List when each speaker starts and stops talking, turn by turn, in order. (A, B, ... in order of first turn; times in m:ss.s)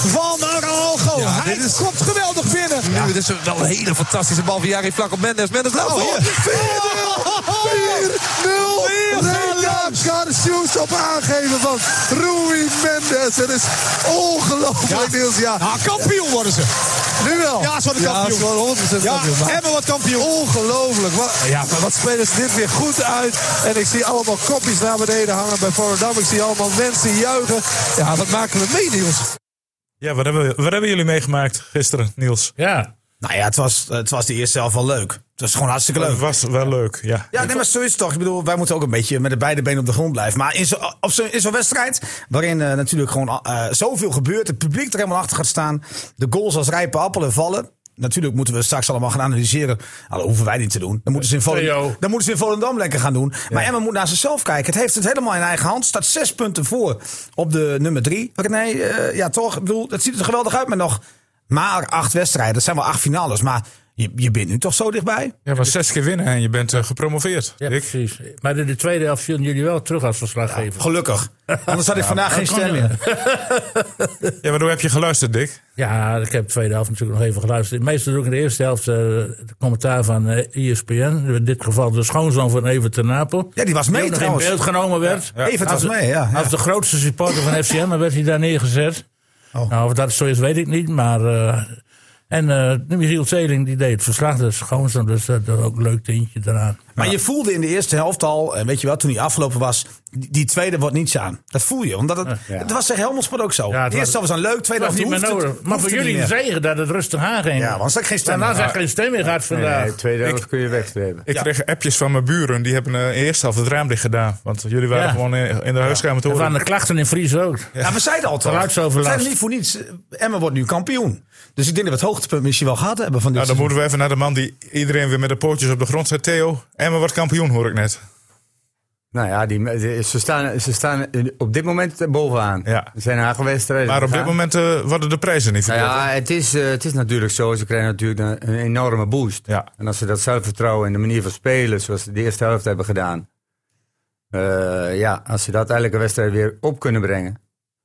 0:01.1-0:01.8 A
0:01.1-0:01.9 B
0:02.8-0:16.2 B
0:02.8-0:03.1 A
0:05.8-0:10.1 A
0:14.9-0:16.7 A
0:17.2-0:29.3 B
0:17.6-0:19.6 A
0:30.0-0:32.5 C
0:32.6-0:32.9 D
0:33.2-0:36.2 A
0:36.0-0:37.6 C
0:37.3-1:05.4 A
0:51.3-0:52.0 D
1:05.5-1:07.9 C
1:07.6-1:10.9 D
1:10.5-1:13.0 A
1:12.3-1:14.3 D
1:14.4-1:15.6 C
1:15.8-1:29.0 D
1:23.6-1:24.6 A
1:25.3-1:25.6 C
1:25.4-1:26.5 A
1:29.7-1:31.8 D
1:32.3-1:36.8 D
1:37.0-1:46.3 A
1:43.7-1:44.2 D
1:44.8-1:49.9 D
1:47.6-1:48.7 A
1:49.5-1:51.3 E
1:51.3-1:56.6 C
1:54.9-1:55.2 D
1:56.3-1:57.7 D
1:57.8-2:03.7 A
1:58.4-1:59.3 D
2:03.4-2:08.0 C
2:09.1-2:14.4 E
2:12.6-2:12.9 C
2:13.9-2:16.0 C
2:15.7-2:23.3 E
2:24.3-2:27.4 E